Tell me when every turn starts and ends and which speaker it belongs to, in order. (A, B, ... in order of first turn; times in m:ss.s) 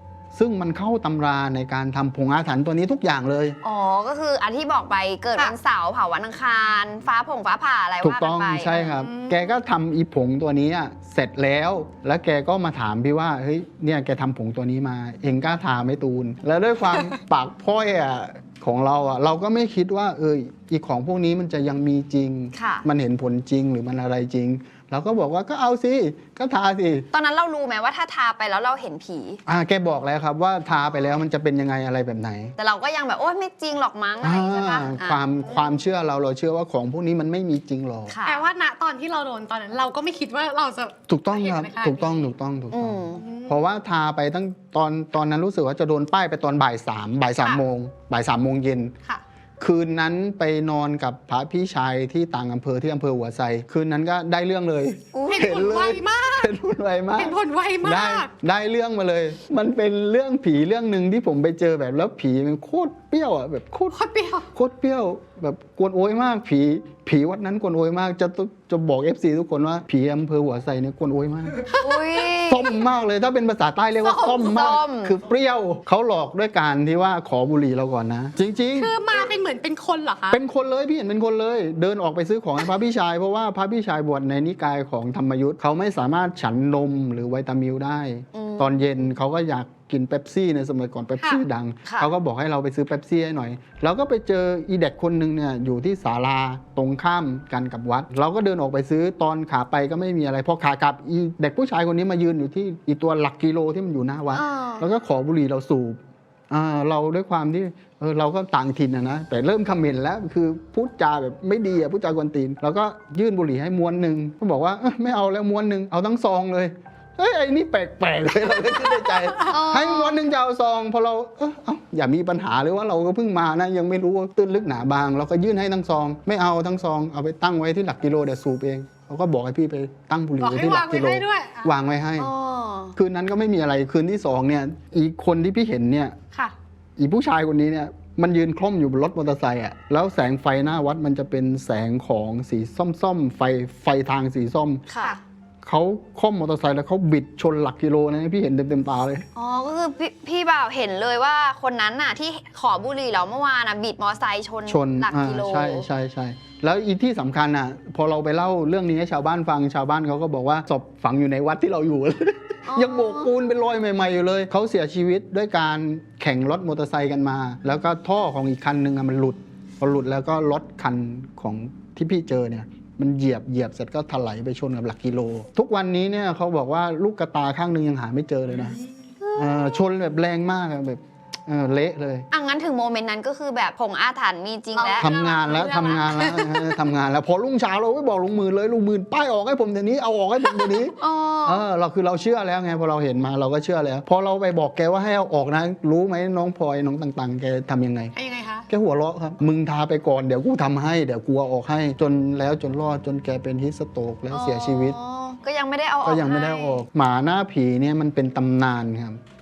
0:00.3-0:03.6 A
0:03.6-0:08.9 B
0:08.0-0:27.1 A
0:08.7-0:09.6 C
0:22.5-0:22.8 B
0:27.1-0:29.4 B
0:29.4-0:32.5 A
0:32.6-0:35.2 B
0:34.2-0:38.1 A
0:38.1-0:38.4 B
0:38.2-0:42.3 C
0:41.1-0:48.9 A
0:42.7-0:43.2 B
0:43.2-0:43.6 C
0:49.6-1:04.0 A
0:55.1-0:55.6 B
0:55.3-0:56.5 C
0:57.2-0:58.3 C
1:03.9-1:04.5 C
1:04.5-1:11.7 A
1:11.7-1:12.3 C
1:11.7-1:12.8 B
1:12.5-1:19.0 A
1:14.0-1:14.8 C
1:14.2-1:15.2 B
1:18.7-1:20.4 C
1:20.3-2:12.3 A
1:28.3-1:28.8 B
1:31.8-1:32.1 B
1:44.3-1:44.8 B
1:59.4-2:00.2 B
2:10.4-2:11.7 C
2:12.2-2:12.9 B
2:13.0-2:16.2 A
2:17.0-2:24.8 A
2:24.9-2:25.2 B
2:25.6-2:29.2 A
2:29.3-2:35.9 B
2:34.7-2:58.8 A
2:42.6-2:43.3 B
2:59.2-2:59.8 B
2:59.3-3:02.3 A
3:02.3-3:06.2 B
3:04.7-3:06.7 C
3:05.0-3:18.1 A
3:11.0-3:11.6 B
3:18.1-3:18.7 C
3:18.7-3:25.0 A
3:24.3-3:26.8 B
3:26.0-3:29.2 A